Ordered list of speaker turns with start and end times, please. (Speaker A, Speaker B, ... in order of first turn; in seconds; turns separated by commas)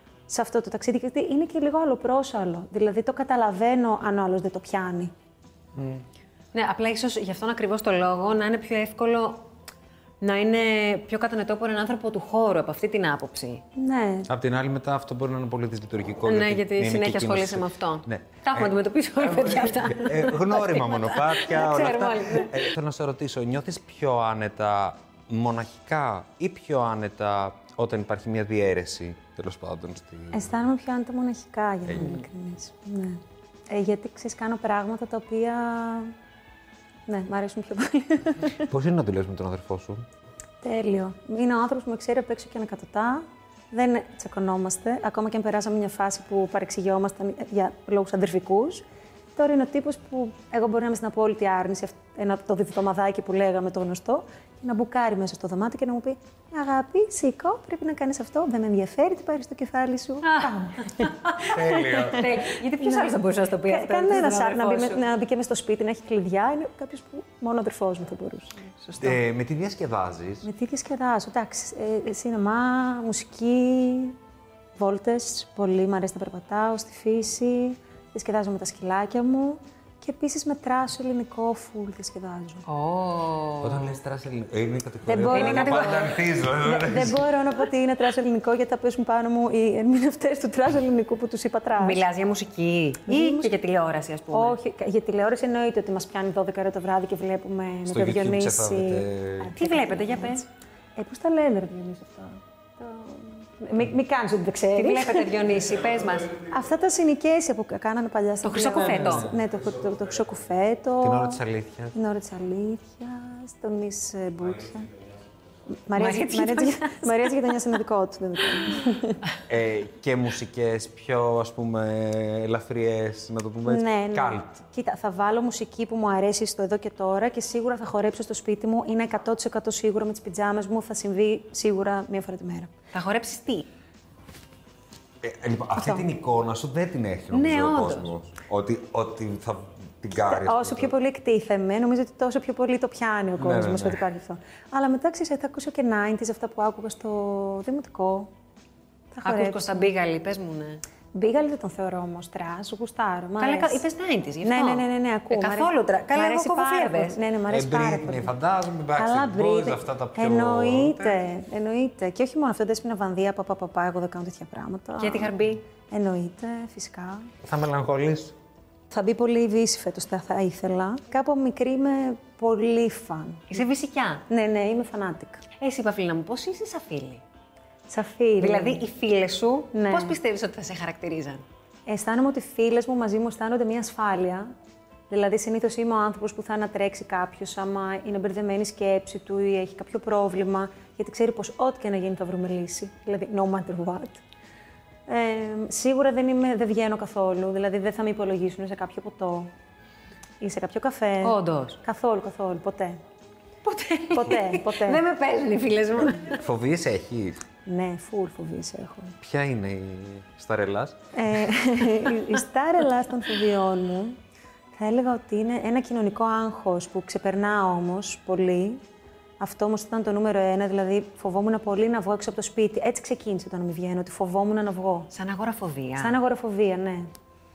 Speaker A: 0.3-5.1, Speaker B: 5.8-6.0, Speaker C: 6.5-9.4, Speaker C: 10.2-13.6, Speaker A: 13.8-14.3, Speaker B: 14.3-30.6, Speaker C: 16.2-22.5, Speaker A: 30.3-36.1, Speaker B: 31.9-32.1, Speaker C: 32.0-32.2, Speaker A: 37.1-38.7, Speaker B: 38.7-40.0, Speaker A: 40.6-63.1, Speaker C: 60.3-65.0, Speaker B: 61.5-62.3, Speaker A: 63.7-68.6, Speaker C: 68.8-69.2, Speaker B: 69.0-70.5, Speaker A: 70.4-74.2, Speaker A: 74.8-82.7, Speaker C: 82.7-83.9, Speaker B: 83.6-87.3, Speaker A: 85.0-92.0, Speaker C: 85.2-86.2, Speaker C: 91.8-94.5, Speaker A: 93.1-93.5, Speaker A: 94.3-100.4, Speaker B: 97.8-99.5, Speaker C: 99.6-100.5, Speaker A: 101.0-105.3, Speaker C: 104.7-106.4, Speaker A: 106.3-111.4, Speaker C: 108.4-109.3, Speaker B: 108.5-109.5, Speaker B: 111.0-111.9, Speaker A: 111.9-114.9, Speaker A: 115.7-119.2, Speaker C: 116.0-117.4, Speaker B: 119.5-124.5, Speaker A: 123.6-132.7, Speaker C: 132.9-133.7, Speaker B: 135.2-140.9, Speaker A: 135.8-136.1, Speaker C: 137.3-138.1, Speaker A: 140.2-148.3, Speaker B: 143.4-144.0, Speaker A: 149.1-149.9, Speaker C: 149.2-150.8, Speaker A: 151.1-153.8, Speaker C: 153.4-157.2, Speaker A: 154.4-158.3, Speaker B: 157.5-161.2, Speaker A: 158.9-167.3, Speaker C: 165.0-165.6, Speaker B: 167.4-168.3, Speaker A: 168.9-173.6, Speaker C: 173.5-174.2, Speaker A: 174.2-175.4, Speaker C: 175.6-177.2, Speaker A: 177.9-178.8, Speaker C: 178.4-181.4, Speaker A: 179.7-180.2, Speaker A: 181.9-184.5, Speaker A: 185.1-194.2, Speaker A: 195.1-199.5, Speaker A: 200.4-203.0, Speaker C: 201.2-201.8, Speaker C: 203.6-206.4, Speaker A: 204.1-205.0, Speaker B: 206.2-207.4, Speaker A: 207.6-209.1, Speaker B: 209.2-211.0, Speaker A: 211.1-214.2, Speaker A: 214.8-218.8, Speaker A: 219.4-225.1, Speaker C: 225.1-226.2, Speaker A: 226.0-227.1